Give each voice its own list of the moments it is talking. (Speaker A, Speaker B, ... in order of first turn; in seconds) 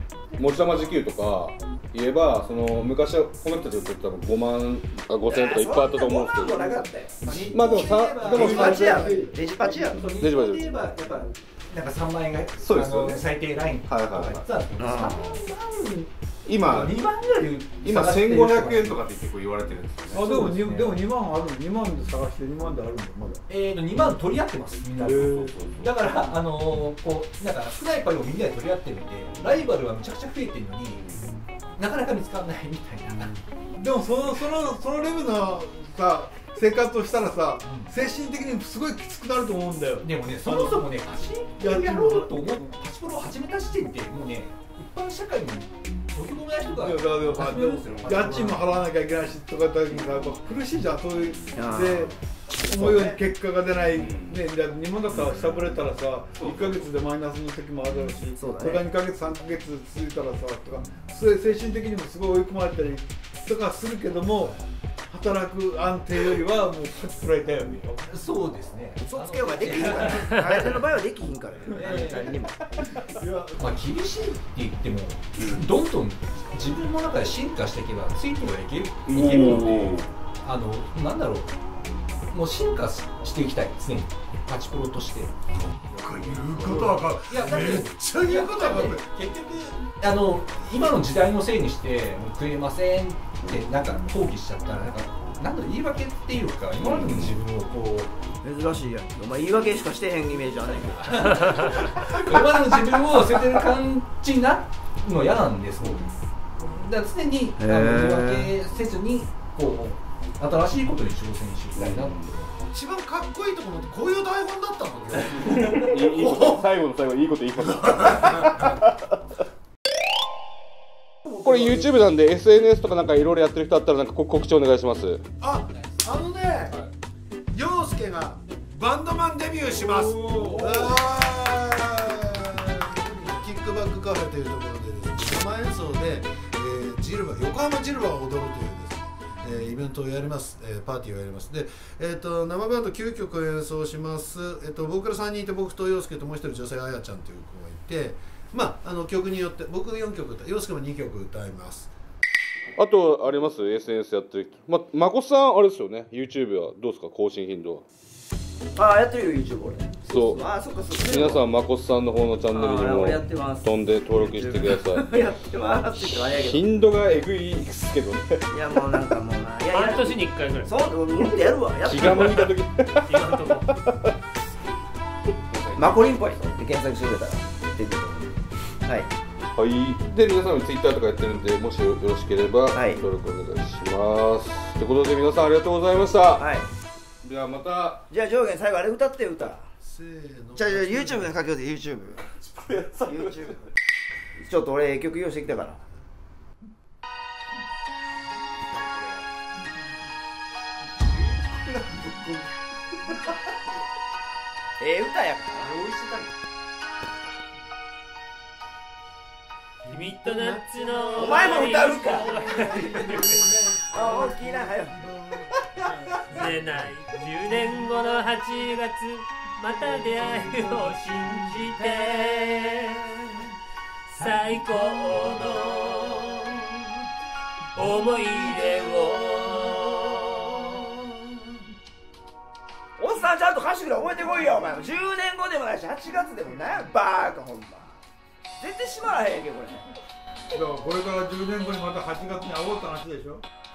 Speaker A: 0.4-9.3, 10.0-10.8, 12.6-13.3, 13.9-14.5, 16.4-17.1, 17.8-20.3, 25.3-25.9, 29.3-29.7, 30.9-31.3, 47.7-48.2, 53.9-54.4, 56.4-56.8, 75.4-75.7, 79.1-80.1, 96.8-97.4, 111.8-112.3, 115.4-119.0, 121.4-125.2, 152.8-157.8, 160.1-165.1, 166.2-168.4, 171.8-174.1, 175.5-176.5, 179.5-186.5, 187.2-188.1, 192.4-193.5
Speaker B: 5.3-6.9, 8.3-10.2, 14.8-15.2, 51.5-52.1, 52.6-53.2, 58.4-58.9, 69.0-72.6, 98.4-103.0, 107.6-108.5, 158.8-161.5, 162.5-166.6, 168.5-172.5, 175.8-179.1, 182.7-183.0, 186.4-186.7, 188.1-189.7, 190.6-192.2, 193.1-193.6, 194.4-195.8, 204.8-205.8, 211.2-212.4, 213.9-215.0, 233.0-238.0, 238.6-239.9
Speaker C: 5.3-9.2, 9.8-19.0, 20.2-21.0, 23.5-31.0, 31.8-33.3, 37.6-37.9, 40.0-48.6, 68.1-70.5, 71.7-72.4, 73.6-81.5, 82.3-85.3, 86.4-98.1, 100.9-112.5, 205.6-206.3
Speaker D: 20.1-23.4, 25.1-25.4, 33.8-40.1, 41.6-42.3, 46.8-52.1, 52.6-64.6, 65.1-68.0, 73.1-73.6, 130.4-130.7, 240.5-243.4
Speaker E: 85.9-89.0, 112.7-116.7, 125.4-126.8, 127.5-151.9, 189.8-191.4, 210.0-215.6
Speaker F: 169.7-170.7, 173.1-173.7, 209.9-213.4, 216.2-223.1, 224.1-226.5, 227.8-230.2